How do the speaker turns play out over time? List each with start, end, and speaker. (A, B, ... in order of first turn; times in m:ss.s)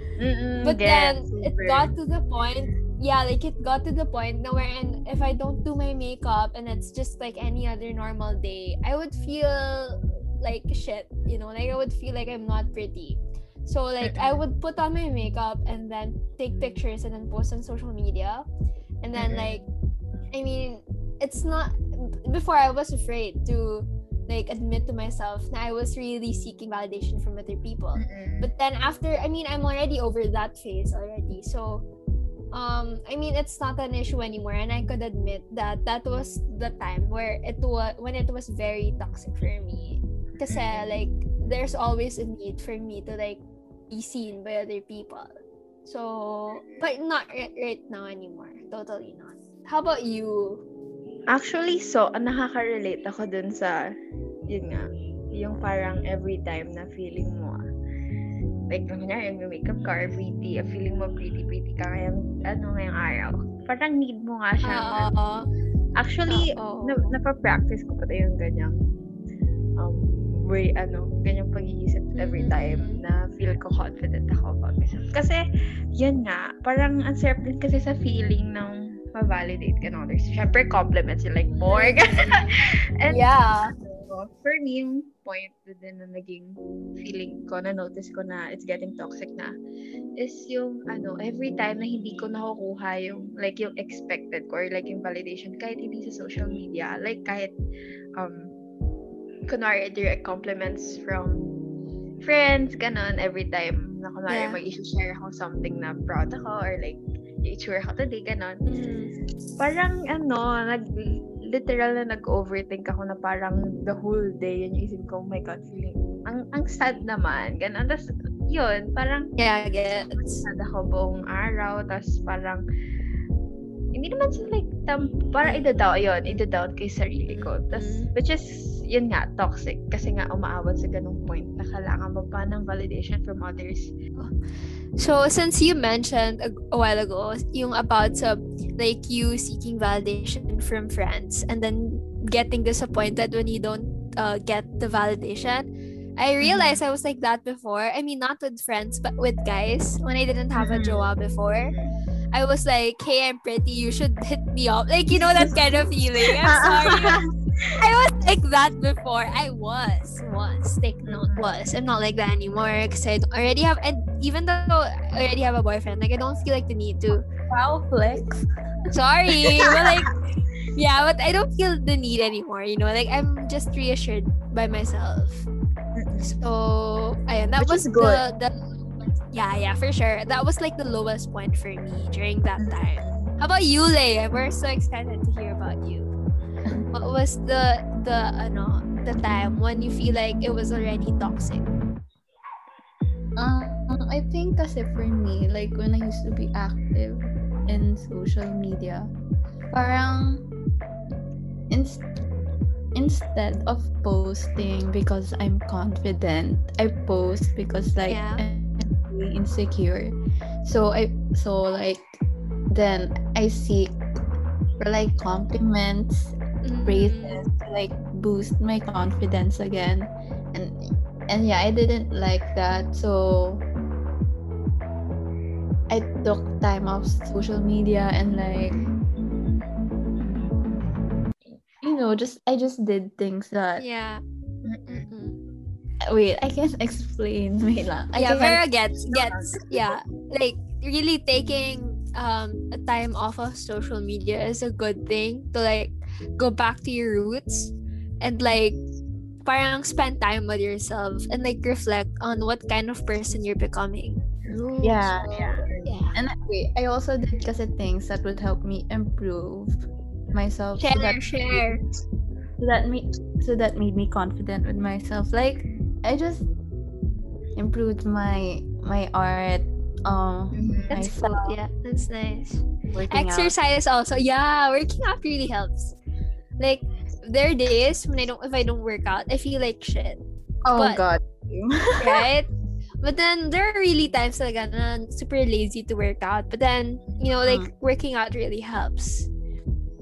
0:00.2-0:01.9 A
0:00.6-0:18.5 B
0:14.0-0:14.4 A
0:19.0-0:19.6 B
0:19.2-0:19.6 A
0:20.3-0:31.8 B
0:28.0-0:28.5 A
0:32.5-0:45.3 B
0:40.5-0:41.0 A
0:45.8-0:50.6 B
0:51.3-0:53.8 A
0:54.5-0:57.6 A
0:58.7-1:05.1 A
1:04.6-1:05.5 B
1:06.0-1:08.8 A
1:06.3-1:07.2 B
1:09.8-1:15.4 A
1:12.2-1:13.0 B
1:16.0-1:29.5 A
1:21.7-1:22.3 B
1:23.1-1:23.8 B
1:30.2-1:37.5 A
1:38.2-1:38.5 A
1:39.5-1:41.5 A
1:42.2-1:48.6 A
1:44.3-1:44.6 B
1:48.7-1:49.1 B
1:49.6-1:59.3 A
1:59.4-2:00.4 B
2:00.2-2:02.6 A
2:03.9-2:13.9 A
2:05.4-2:06.4 B
2:07.3-2:08.1 B
2:15.0-2:31.7 B
2:26.4-2:26.8 A
2:30.6-2:31.1 A
2:32.3-2:37.2 B
2:35.1-2:37.2 A
2:37.7-2:47.2 B
2:41.1-2:41.5 A
2:47.5-2:48.5 C
2:48.9-2:50.1 B
2:50.8-2:55.5 B
2:56.0-2:56.4 A
2:56.2-3:06.1 B
2:57.6-2:58.2 A
3:02.6-3:03.3 A
3:06.9-3:11.6 B
3:13.4-3:19.1 C
3:19.7-3:20.5 C
3:21.7-3:22.0 C
3:22.9-3:34.0 C
3:28.1-3:28.4 B
3:34.8-3:43.7 C
3:36.6-3:37.4 B
3:45.9-3:48.8 C
3:51.8-3:53.8 C
3:53.8-3:54.2 B
3:54.6-3:55.1 A
3:54.9-3:55.4 B
3:56.1-3:58.6 C
3:58.2-4:08.8 B
4:09.4-4:16.2 B
4:14.8-4:15.5 C
4:15.3-4:15.9 A
4:16.1-4:21.8 C
4:20.8-4:21.8 B
4:22.6-4:26.5 C
4:27.6-4:31.6 C
4:30.6-4:30.9 A
4:30.9-4:36.0 B
4:32.9-4:33.5 C
4:36.6-4:40.2 B
4:40.6-4:42.2 C
4:40.7-4:41.0 B
4:42.0-4:42.5 B
4:43.0-4:49.3 B
4:47.4-4:47.7 C